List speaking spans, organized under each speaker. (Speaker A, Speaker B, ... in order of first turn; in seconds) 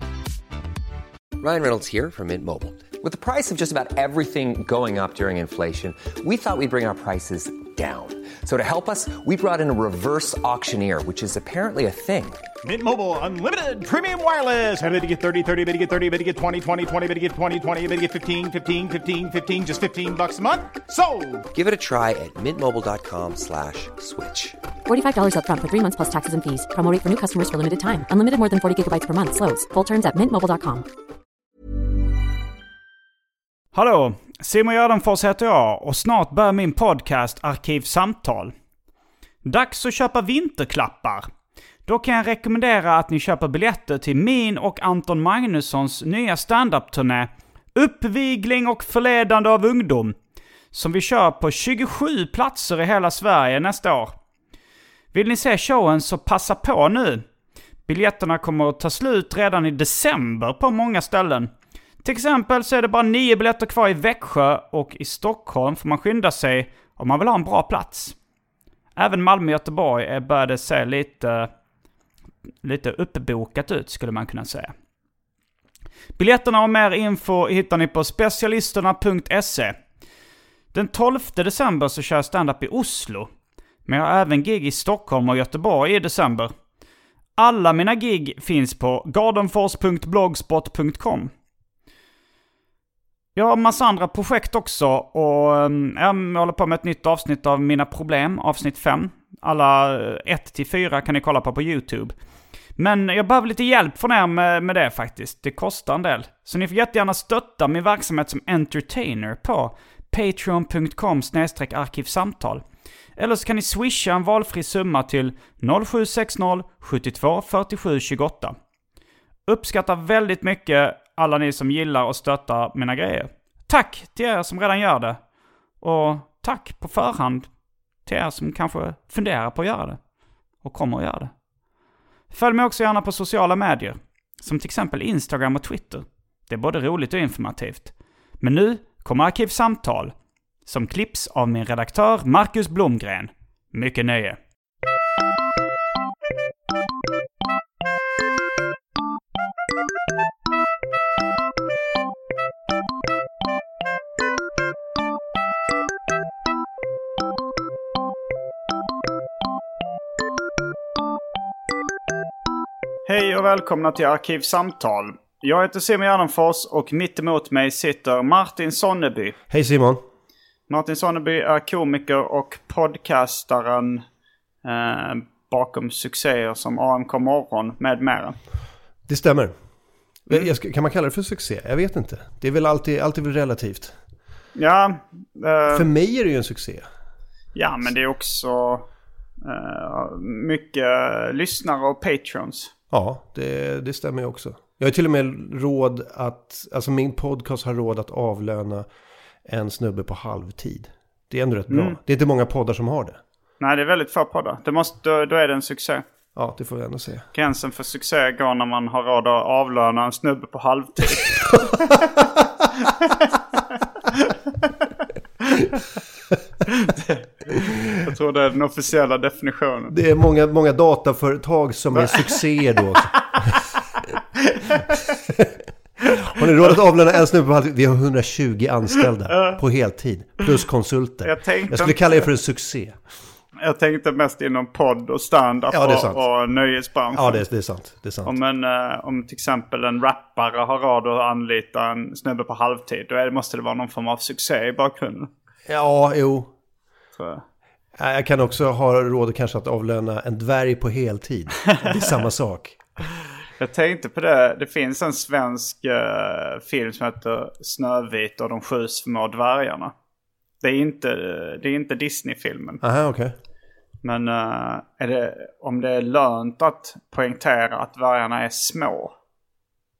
Speaker A: 1.4-12.5, 21.5-24.6
Speaker B: 12.6-21.4
Speaker C: 24.9-30.9
Speaker D: 33.7-38.5, 39.4-41.2, 41.9-50.1, 50.7-54.2, 55.1-57.3, 57.9-61.5, 62.0-68.2, 69.0-71.5, 72.6-74.7, 76.2-79.8, 80.7-83.3, 83.8-86.5, 87.4-91.3, 93.3-102.1, 102.8-112.6, 113.2-118.5, 119.5-125.2, 125.8-130.0, 130.6-131.4, 132.3-140.1, 140.6-144.4, 163.1-169.4, 170.7-174.0, 174.6-178.4, 184.5-185.9, 187.5-188.8, 189.4-192.7, 201.7-202.0, 203.6-206.0, 207.3-211.8, 212.8-213.4, 216.7-219.9, 221.9-222.2, 224.5-225.1, 229.3-229.6, 231.2-232.3, 233.6-237.4, 238.2-245.3, 247.2-247.4, 253.6-259.9, 260.6-262.8, 264.0-269.1
Speaker E: 169.5-170.0, 179.1-179.5, 180.3-184.0, 185.7-186.9, 192.9-198.9, 199.4-203.2, 206.3-207.2, 211.9-212.7, 219.9-223.6, 226.2-233.0, 235.7-236.2, 237.1-238.3, 245.7-246.5, 248.0-252.8, 262.8-263.3